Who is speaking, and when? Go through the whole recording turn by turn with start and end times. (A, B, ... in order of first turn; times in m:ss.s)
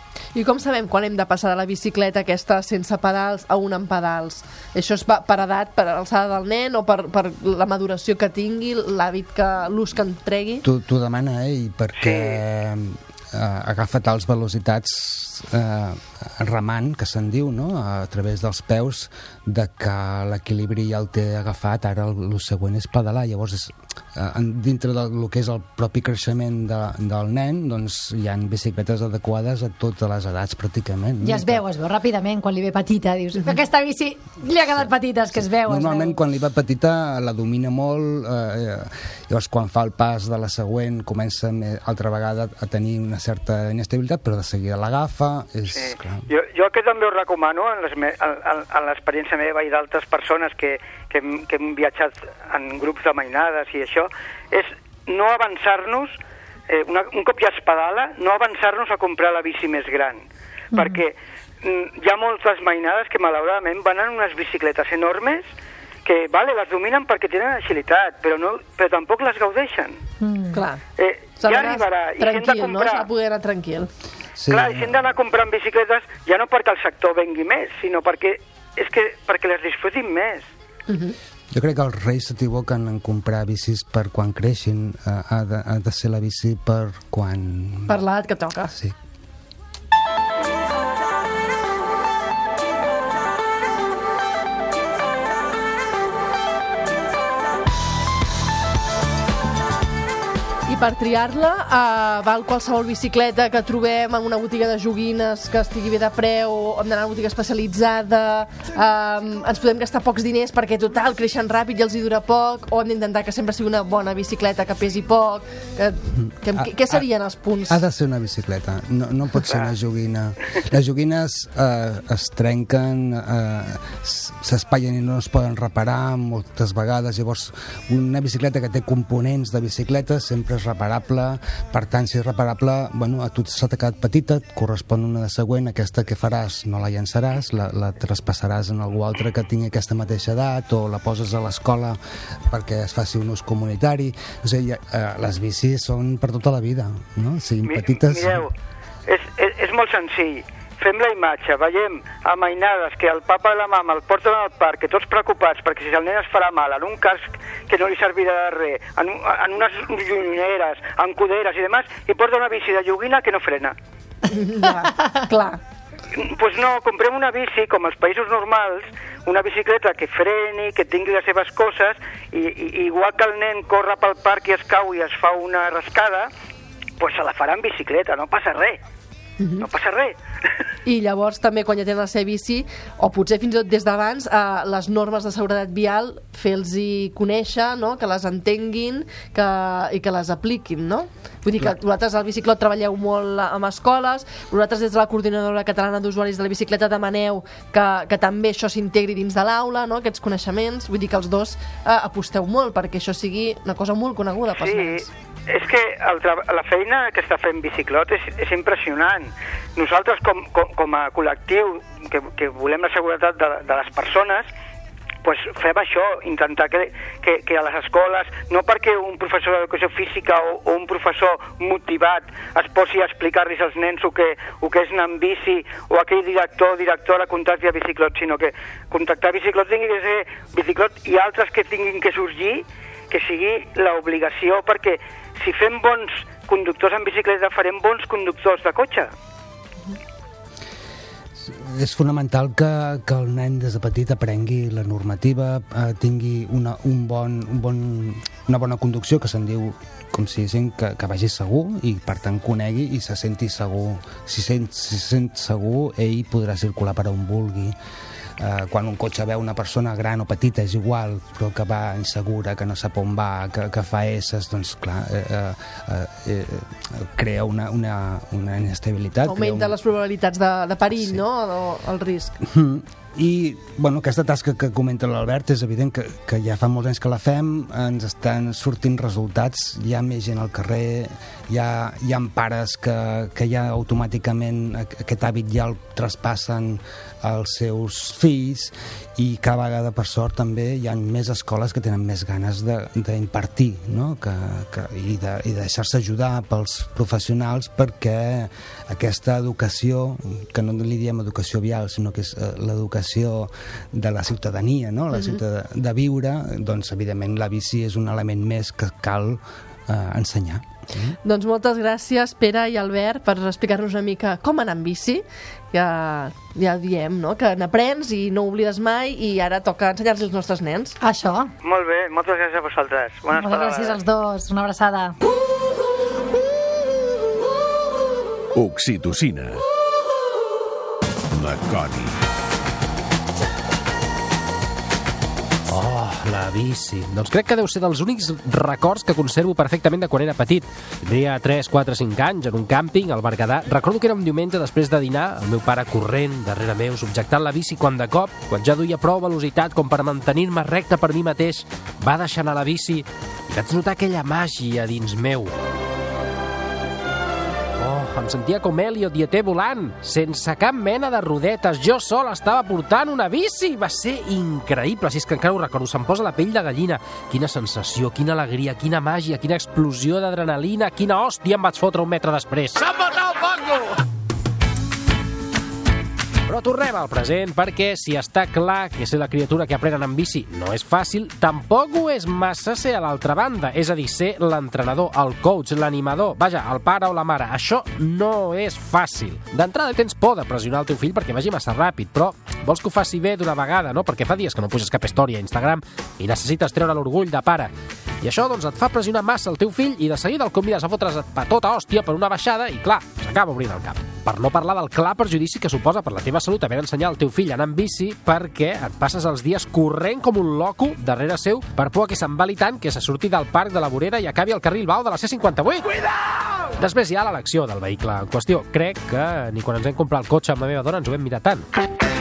0:00.4-0:10.6 A
0:10.6-0:31.6 B
0:12.0-0:12.4 C
0:31.2-0:36.2 D
0:34.7-0:46.3 B
0:45.7-0:56.2 C
0:56.7-1:05.5 C
1:00.7-1:01.0 D
1:06.0-1:10.0 C
1:10.2-1:10.6 D
1:10.5-1:10.8 A
1:11.0-1:13.1 C
1:11.4-1:13.9 A
1:14.4-1:15.0 B
1:14.5-1:20.5 C
1:20.9-1:21.2 A
1:21.5-1:28.0 B
1:27.9-1:28.7 A
1:40.7-1:57.8 A
1:56.2-1:57.1 B
1:57.7-2:22.0 B
2:22.5-2:28.4 B
2:27.6-2:28.5 C
2:29.1-2:43.8 C
2:44.3-2:45.6 A
2:46.1-2:56.3 C
2:57.0-2:58.8 C
2:59.4-2:59.6 A
2:59.6-3:00.2 C
3:00.9-3:25.1 A
3:24.6-3:34.5 C
3:35.2-3:59.1 C
4:01.4-4:17.8 B
4:18.4-4:29.8 B
4:29.2-4:32.4 A
4:31.0-4:31.2 B
4:32.4-5:11.1 B
5:05.1-5:05.4 A
5:11.2-5:21.0 A
5:21.0-5:21.5 D
5:21.6-5:24.0 C
5:23.3-5:25.2 D
5:28.6-5:29.6 E
5:31.3-5:32.2 E
5:35.7-5:55.6 F
5:57.8-6:14.0 F
6:16.5-7:01.7 F